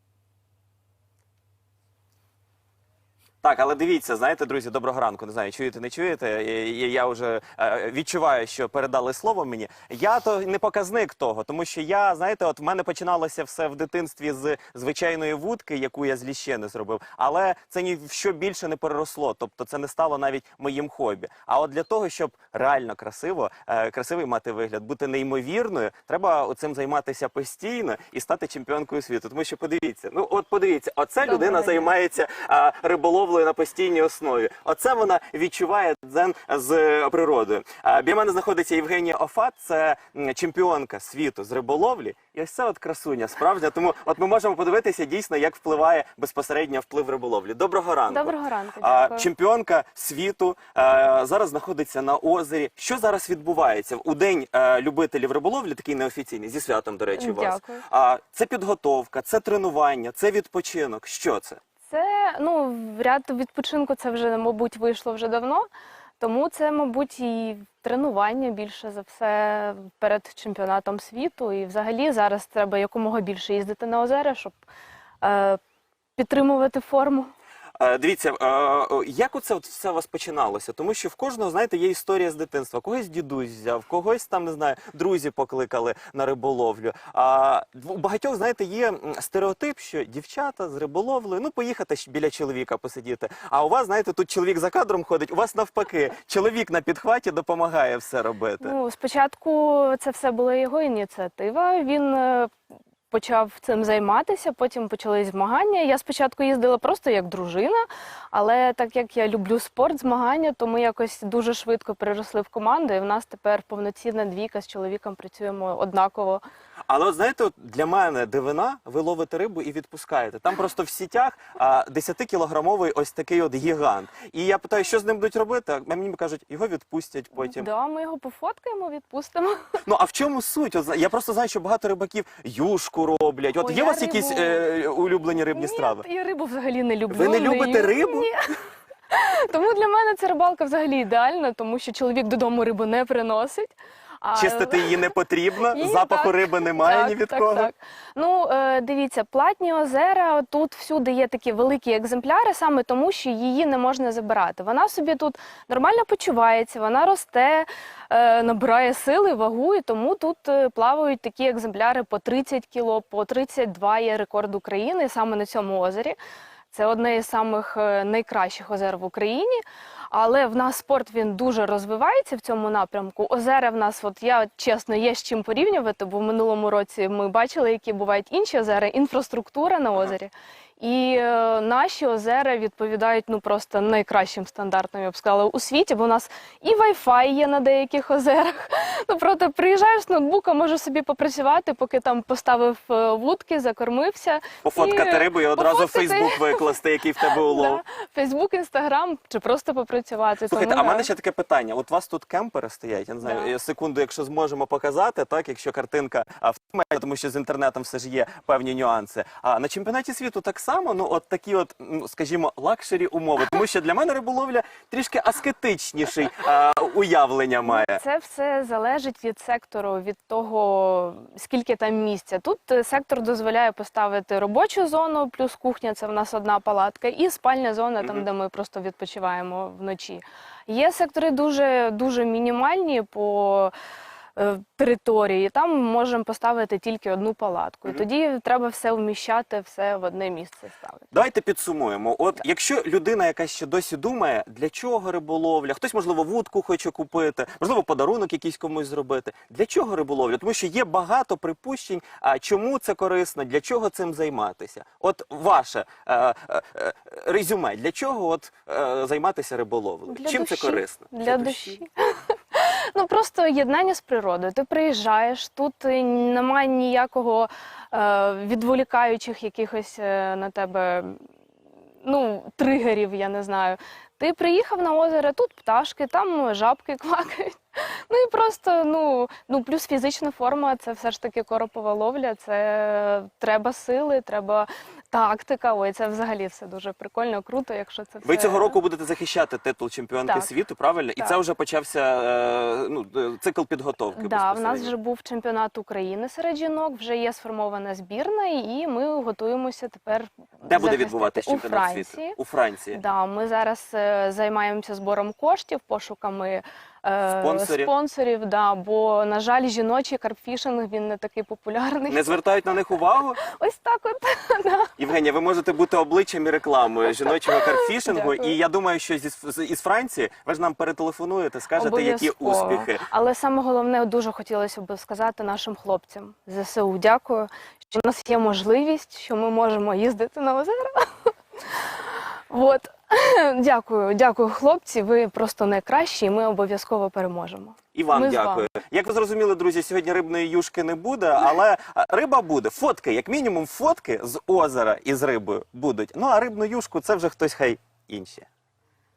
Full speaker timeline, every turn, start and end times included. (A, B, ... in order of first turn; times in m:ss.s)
0:03.4-1:01.6 A
0:31.2-0:31.9 B
0:48.1-0:49.3 B
0:57.2-0:57.8 B
1:01.9-1:05.7 B
1:06.2-1:14.6 B
1:15.2-1:15.6 B
1:16.2-1:17.3 B
1:17.8-1:38.7 A
1:38.6-1:42.5 B
1:43.1-1:56.4 B
1:56.9-2:07.7 A
2:07.4-2:09.6 B
2:09.9-2:16.0 A
2:13.6-2:14.7 B
2:15.5-2:18.5 B
2:17.1-2:18.3 A
2:19.1-2:25.2 B
2:24.3-2:27.7 A
2:25.7-2:46.2 B
2:46.7-3:21.1 B
3:14.6-3:17.8 A
3:20.5-3:38.0 A
3:23.2-3:23.5 B
3:37.6-3:53.7 B
3:48.0-3:48.3 A
3:54.4-4:01.1 B
4:01.1-4:21.8 A
4:20.1-4:21.9 B
4:22.5-4:31.2 B
4:32.0-4:48.8 B
4:48.2-4:54.9 A
4:50.2-4:50.5 B
4:54.2-5:02.4 B
5:00.6-5:03.0 A
5:02.9-5:12.4 B
5:07.3-5:07.9 A
5:12.1-5:13.4 A
5:13.4-5:14.9 B
5:15.0-5:23.0 A
5:17.4-5:18.6 B
5:21.8-5:31.1 B
5:32.5-5:38.7 B
5:38.0-5:48.5 A